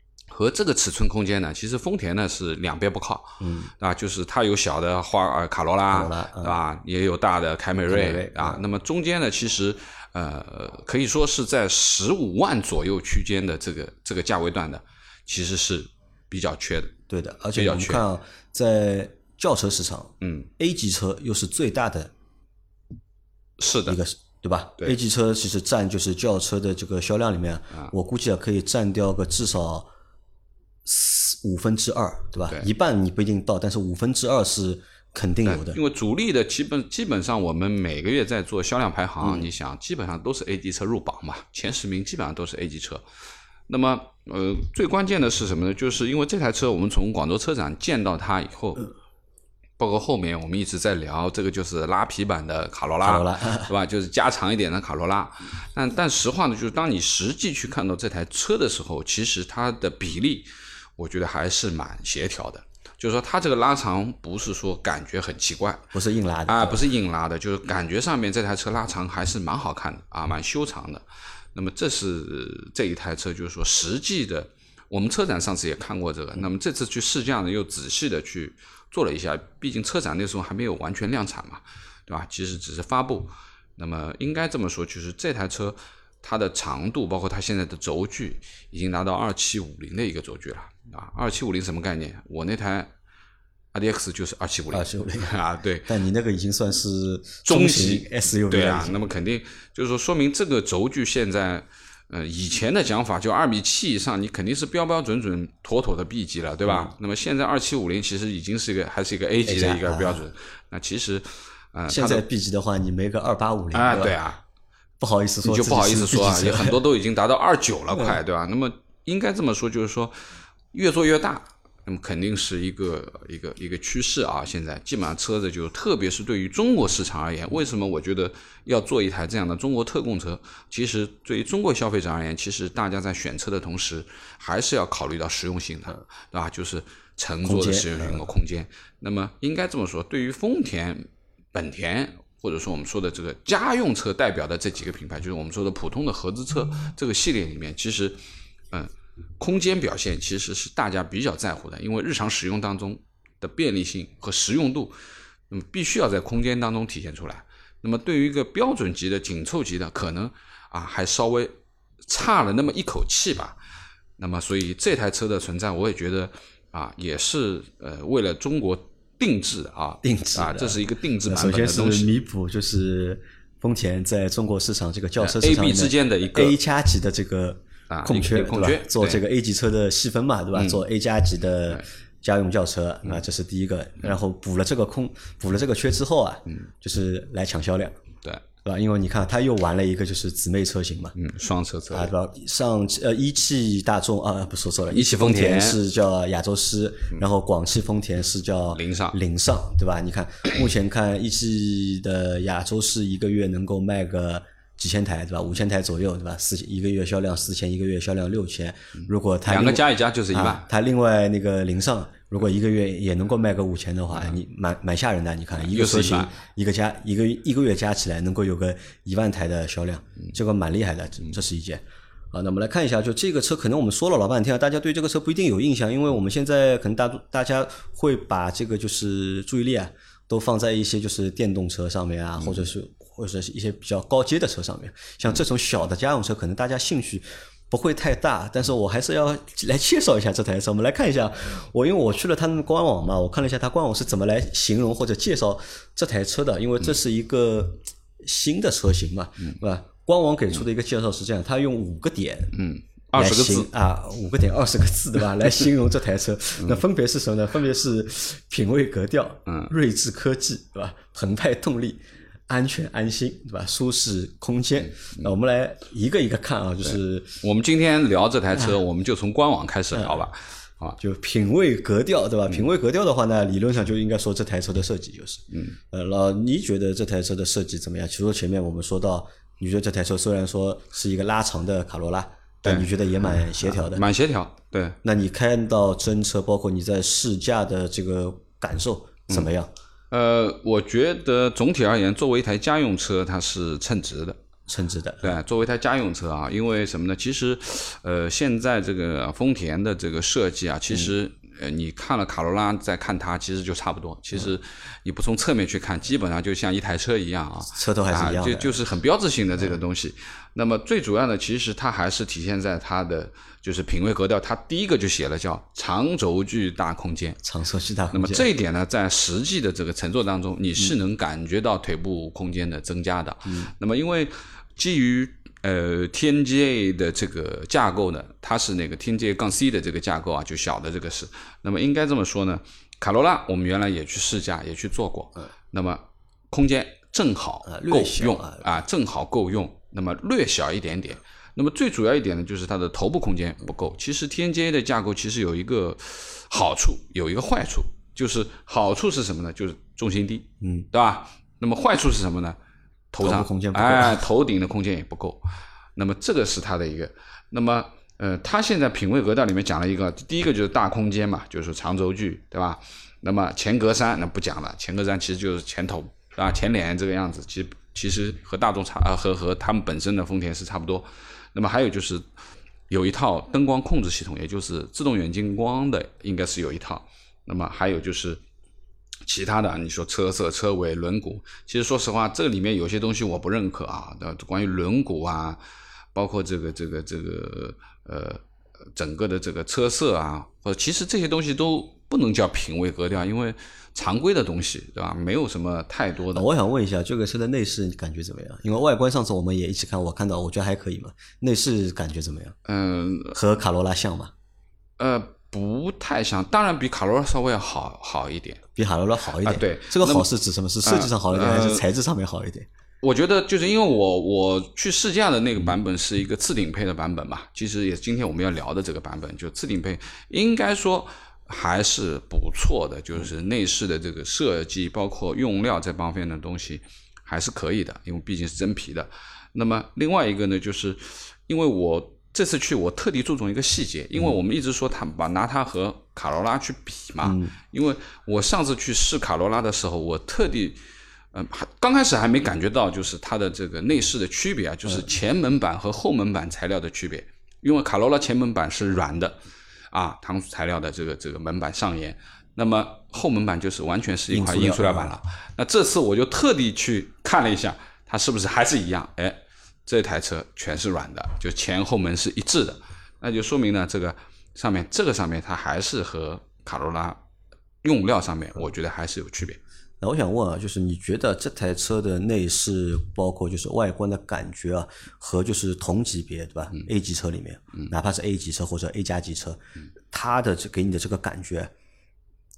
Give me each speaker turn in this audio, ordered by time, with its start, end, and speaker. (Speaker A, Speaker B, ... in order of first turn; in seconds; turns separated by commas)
Speaker A: 0.3-16.9, Speaker B: 3.4-3.7, Speaker B: 5.9-6.6, Speaker B: 7.9-8.6, Speaker B: 17.1-22.1, Speaker A: 17.5-18.0, Speaker A: 20.2-20.5, Speaker A: 23.6-24.0, Speaker B: 23.9-29.9, Speaker B: 30.8-35.8, Speaker A: 35.4-43.0, Speaker B: 39.2-39.5, Speaker A: 43.7-48.9, Speaker A: 49.8-65.9, Speaker B: 53.0-53.7, Speaker B: 65.9-66.8, Speaker A: 66.5-71.0, Speaker A: 71.5-92.9, Speaker A: 93.7-95.9, Speaker B: 94.7-95.3, Speaker B: 95.8-99.0, Speaker A: 97.4-112.2, Speaker B: 106.7-106.9, Speaker B: 109.4-110.2, Speaker B: 111.9-114.2, Speaker A: 113.7-114.4, Speaker B: 115.0-116.8, Speaker A: 115.4-120.1, Speaker A: 120.7-148.2, Speaker B: 137.4-138.2, Speaker A: 148.7-154.9, Speaker A: 155.5-161.5, Speaker A: 162.0-163.6, Speaker A: 164.2-172.1, Speaker B: 170.0-188.0, Speaker A: 175.2-176.6, Speaker A: 177.9-179.2, Speaker A: 180.5-180.8, Speaker B: 188.6-191.2, Speaker A: 191.2-192.1, Speaker B: 191.9-252.6, Speaker A: 194.9-195.8, Speaker A: 198.7-199.2, Speaker A: 209.4-210.7, Speaker A: 215.6-216.3, Speaker A: 232.4-232.6, Speaker A: 252.5-253.7, Speaker B: 253.1-267.4, Speaker A: 259.5-259.7, Speaker A: 267.4-271.0, Speaker B: 269.9-270.2, Speaker B: 271.0-284.0, Speaker A: 275.5-275.8, Speaker A: 283.6-285.0, Speaker B: 285.0-289.7, Speaker A: 290.1-294.4, Speaker B: 294.7-295.4, Speaker A: 295.2-317.4, Speaker B: 307.7-308.8, Speaker B: 317.4-318.5, Speaker A: 318.1-352.6, Speaker B: 323.4-323.7, Speaker B: 337.6-338.6, Speaker B: 350.6-350.9, Speaker A: 353.1-355.4, Speaker B: 353.2-354.2, Speaker A: 355.9-372.2, Speaker A: 372.9-378.4, Speaker A: 379.2-385.6, Speaker A: 386.1-388.4, Speaker A: 388.9-396.5, Speaker B: 396.3-402.6, Speaker A: 402.6-403.4, Speaker B: 403.3-404.3, Speaker A: 405.0-408.6, Speaker B: 408.8-412.7, Speaker A: 409.4-410.3, Speaker A: 410.8-411.8, Speaker A: 413.0-440.8, Speaker B: 437.2-437.5, Speaker A: 441.3-449.4, Speaker A: 449.9-467.2, Speaker B: 454.3-455.1, Speaker A: 467.8-469.6, Speaker B: 470.0-479.6, Speaker B: 480.1-481.7